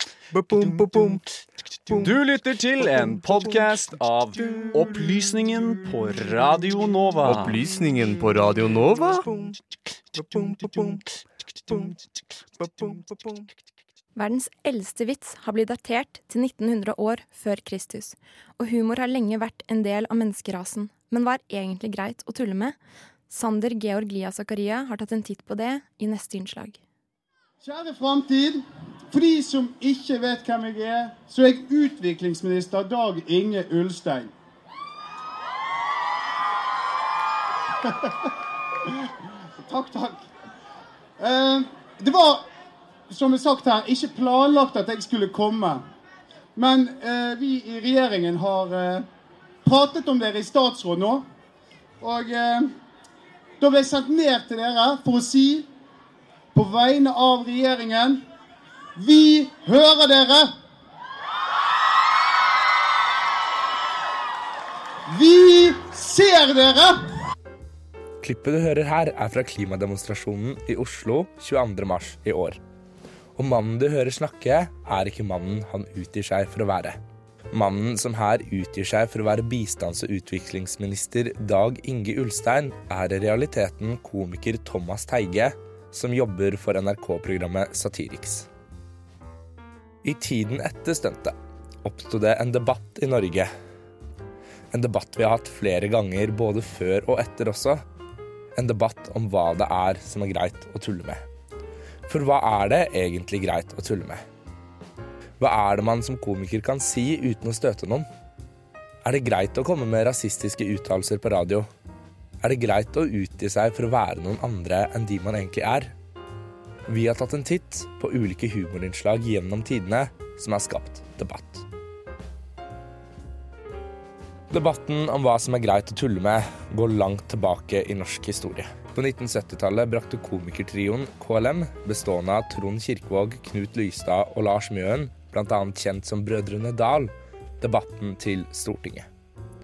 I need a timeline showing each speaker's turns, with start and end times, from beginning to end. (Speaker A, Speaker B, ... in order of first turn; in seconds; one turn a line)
Speaker A: 0.3-1.2
Speaker B: 0.6-1.0
Speaker B: 1.9-7.6
Speaker A: 7.3-9.5
Speaker A: 10.2-11.0
Speaker A: 12.6-13.0
Speaker C: 14.2-22.8
Speaker C: 23.3-26.8
Speaker D: 27.6-34.3
Speaker D: 37.8-38.3
Speaker D: 39.7-40.2
Speaker D: 41.2-42.5
Speaker D: 43.1-45.8
Speaker D: 46.6-49.1
Speaker D: 49.6-51.2
Speaker D: 52.0-52.7
Speaker D: 53.6-55.7
Speaker D: 56.5-58.2
Speaker D: 59.0-60.5
Speaker D: 65.1-67.0
Speaker E: 68.2-72.6
Speaker E: 73.4-77.0
Speaker E: 77.5-88.5
Speaker E: 90.0-93.5
Speaker E: 94.7-97.8
Speaker E: 98.6-101.2
Speaker E: 102.1-104.2
Speaker E: 105.4-108.1
Speaker E: 109.0-111.7
Speaker E: 112.4-116.0
Speaker E: 116.9-121.7
Speaker E: 124.5-139.1